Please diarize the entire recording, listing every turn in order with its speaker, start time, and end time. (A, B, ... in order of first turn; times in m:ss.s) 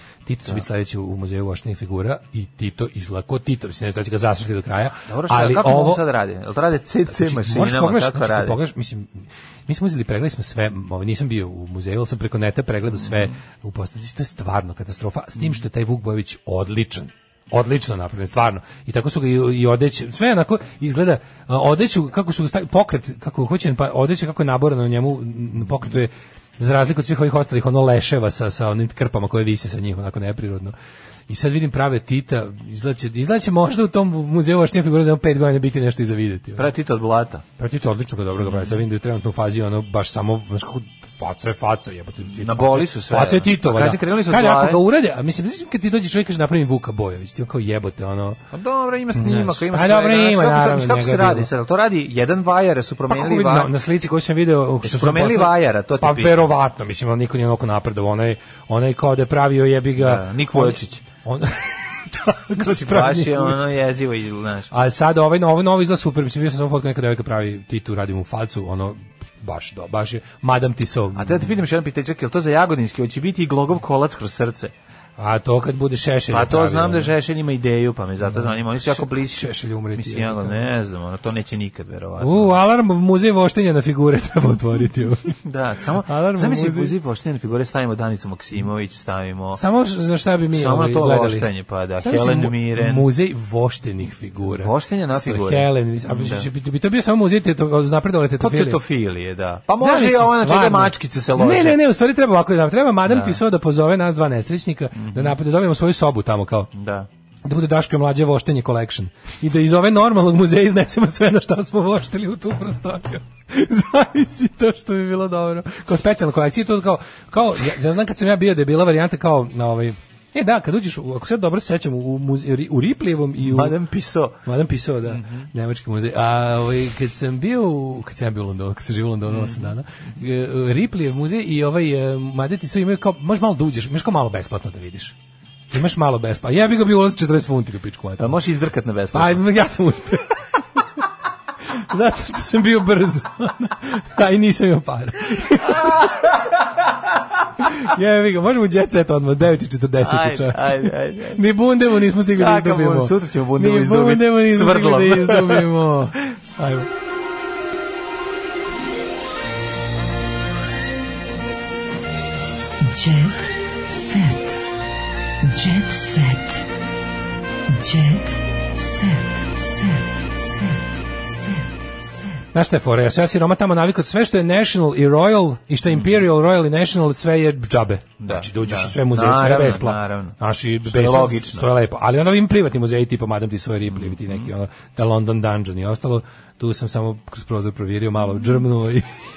0:00.2-0:06.0 A
0:05.0-0:08.6 B
0:07.1-0:30.7 A
0:31.3-0:36.7 A
0:36.6-0:37.4 B
0:37.6-0:48.4 A
0:38.4-0:38.7 B
0:42.3-0:44.8 B
0:48.5-0:53.7 B
0:49.1-0:51.5 A
0:53.1-1:03.6 A
0:54.8-0:56.4 B
1:00.0-1:01.0 B
1:02.6-1:04.7 B
1:04.7-1:11.5 A
1:11.2-1:14.7 B
1:15.2-1:17.1 A
1:16.3-1:22.5 B
1:18.2-1:20.7 A
1:22.2-1:25.4 A
1:25.4-1:29.6 B
1:26.0-1:26.9 A
1:29.5-1:38.8 A
1:30.5-1:33.1 B
1:34.6-1:36.5 B
1:38.4-1:41.8 B
1:39.8-1:46.7 A
1:43.1-1:43.4 B
1:44.9-1:45.3 B
1:46.7-1:47.1 B
1:47.4-2:03.8 A
2:03.4-2:04.4 B
2:04.4-2:15.2 A
2:05.0-2:05.5 B
2:09.3-2:09.7 B
2:15.7-2:18.4 A
2:18.2-2:19.4 B
2:19.1-2:20.8 A
2:21.7-2:26.0 A
2:25.7-2:26.3 B
2:27.6-2:36.9 A
2:30.0-2:31.4 B
2:32.3-2:35.7 B
2:42.8-2:43.5 C
2:45.5-2:46.4 C
2:47.7-2:48.4 C
2:52.5-3:09.2 A
2:58.2-3:01.7 B
3:03.9-3:04.5 B